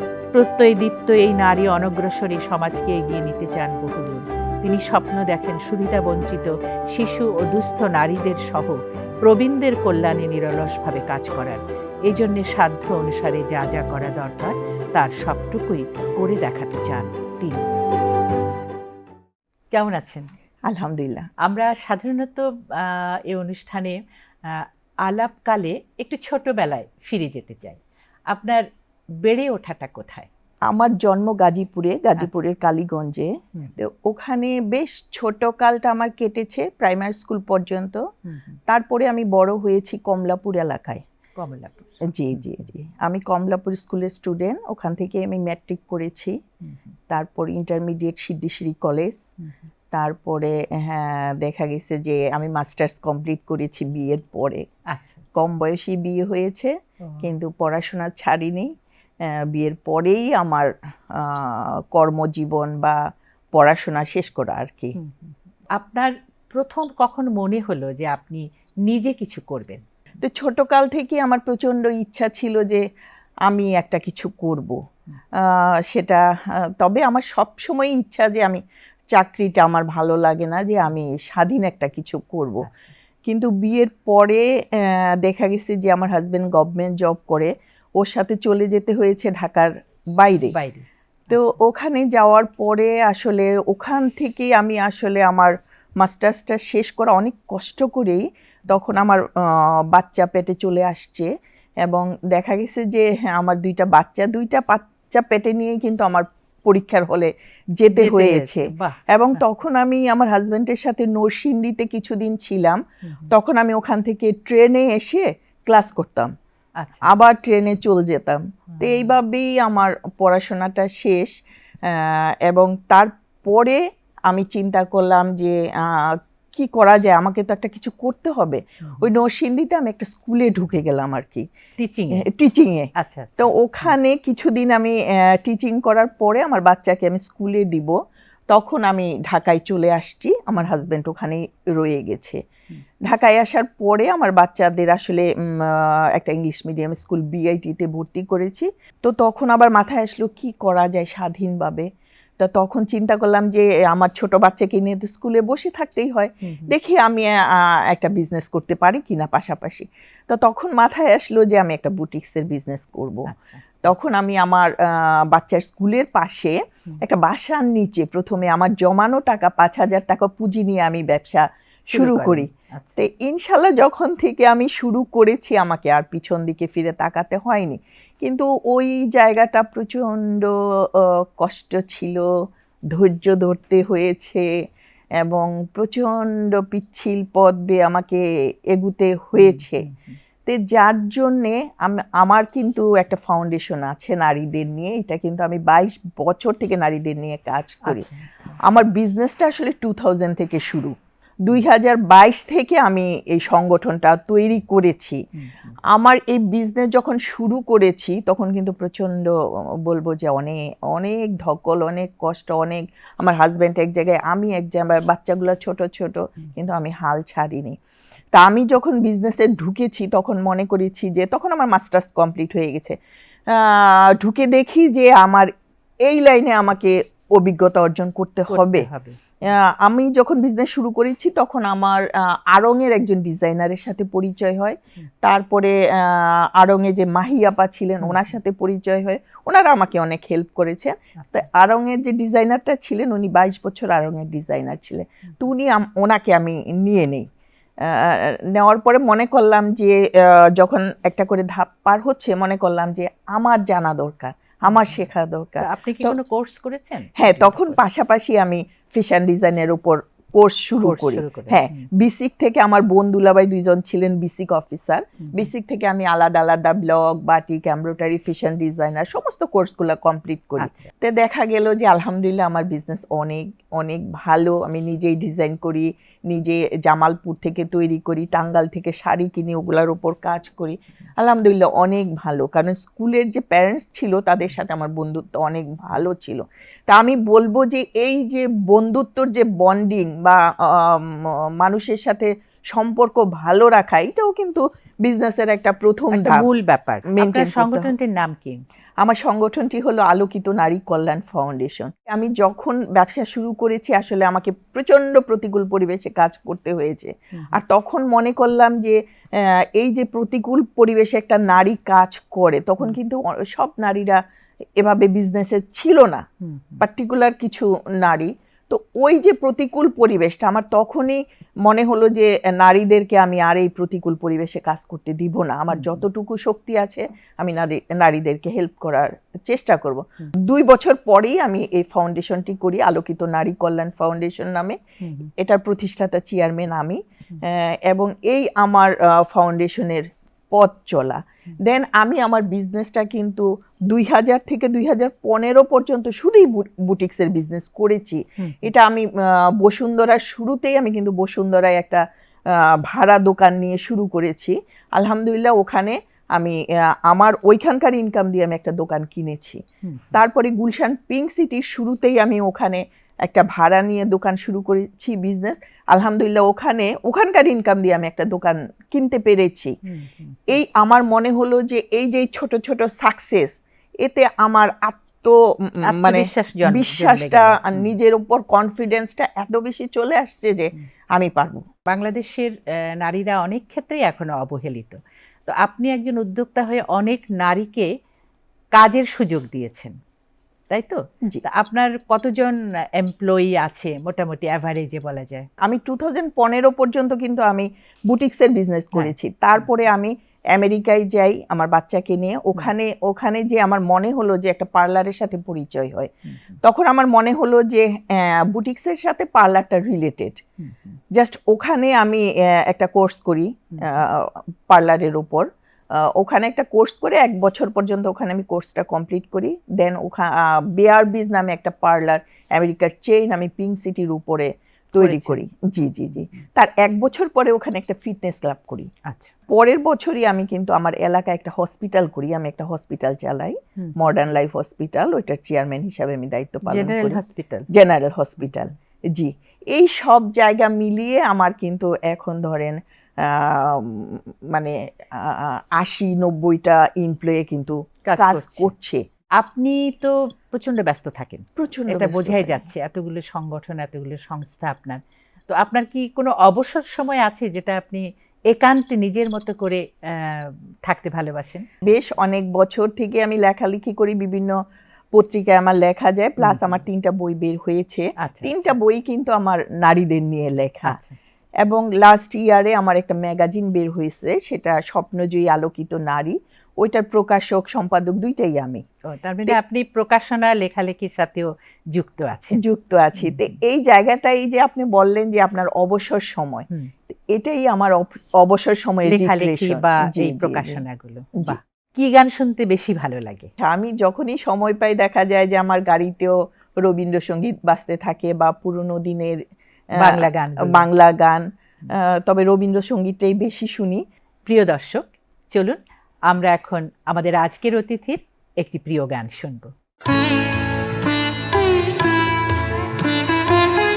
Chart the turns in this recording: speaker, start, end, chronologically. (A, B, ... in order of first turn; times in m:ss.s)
0:00.3-0:17.6 A
0:19.7-0:20.3 A
0:20.6-0:21.3 B
0:21.4-0:28.6 A
0:29.2-0:30.3 A
0:30.7-0:38.0 B
0:38.2-0:38.6 A
0:38.7-0:41.0 B
0:41.4-0:41.9 A
0:42.1-0:46.4 B
0:47.1-0:49.2 B
0:49.9-0:54.6 B
0:54.9-0:55.2 A
0:55.3-0:58.7 B
0:59.2-1:03.0 B
1:03.5-1:05.0 B
1:05.0-1:09.8 A
1:10.2-1:12.8 B
1:13.4-1:14.8 B
1:15.3-1:22.7 B
1:22.6-1:22.9 A
1:23.2-1:30.6 B
1:30.5-1:31.4 A
1:31.3-1:41.3 B
1:41.8-1:56.3 B
1:47.9-1:49.4 A
1:53.0-1:53.3 A
1:56.8-1:57.1 A
1:57.0-2:11.4 B
1:58.7-1:59.1 A
2:11.8-2:12.2 A
2:12.1-2:17.9 B
2:13.0-2:13.9 A
2:18.5-2:22.4 B
2:23.0-2:31.8 B
2:32.4-2:43.3 B
2:36.4-2:36.7 A
2:43.3-2:43.8 A
2:43.8-3:02.3 B
2:51.9-2:53.0 A
3:02.9-3:04.5 B
3:05.2-3:09.8 B
3:09.4-3:10.2 A
3:10.4-3:18.1 B
3:17.8-3:18.3 A
3:18.6-3:25.2 B
3:25.4-3:25.7 A
3:25.9-3:29.3 B
3:29.8-3:37.8 B
3:38.3-3:43.0 B
3:43.5-3:45.5 B
3:46.0-3:48.9 B
3:48.5-3:49.2 A
3:49.4-4:07.3 B
4:01.2-4:01.4 A
4:07.8-4:16.2 B
4:14.7-4:15.0 A
4:15.6-4:17.8 A
4:17.2-4:56.4 B
4:20.8-4:21.9 A
4:30.6-4:30.9 A
4:56.1-4:58.6 A
4:57.1-4:57.9 B
4:59.0-5:14.2 B
5:14.8-5:16.2 B
5:16.4-5:16.8 A
5:16.8-5:34.8 B
5:25.7-5:26.0 A
5:35.0-5:35.3 A
5:35.3-5:59.6 B
5:48.4-5:48.7 A
5:59.8-6:00.2 A
6:00.1-6:09.8 B
6:09.8-6:10.6 A
6:10.5-6:21.7 B
6:15.8-6:17.9 A
6:21.9-6:27.9 A
6:28.7-6:29.9 A
6:30.7-6:35.5 A
6:35.6-6:50.4 B
6:46.3-6:46.6 A
6:50.6-6:51.0 A
6:51.1-7:08.9 B
7:05.0-7:05.4 A
7:09.1-7:09.3 A
7:09.5-7:17.2 B
7:16.7-7:17.7 A
7:17.7-7:29.0 B
7:28.1-7:28.7 A
7:29.4-7:41.7 A
7:31.6-7:32.6 B
7:41.8-7:44.6 B
7:45.1-7:51.0 B
7:46.4-7:46.8 A
7:48.2-7:48.7 A
7:50.8-7:51.2 A
7:51.6-7:58.8 B
7:59.1-8:02.6 A
8:02.5-8:10.8 B
8:03.2-8:03.5 A
8:09.1-8:13.5 A
8:13.6-8:19.4 B
8:20.0-8:20.9 A
8:20.0-8:24.0 B
8:24.5-8:29.7 A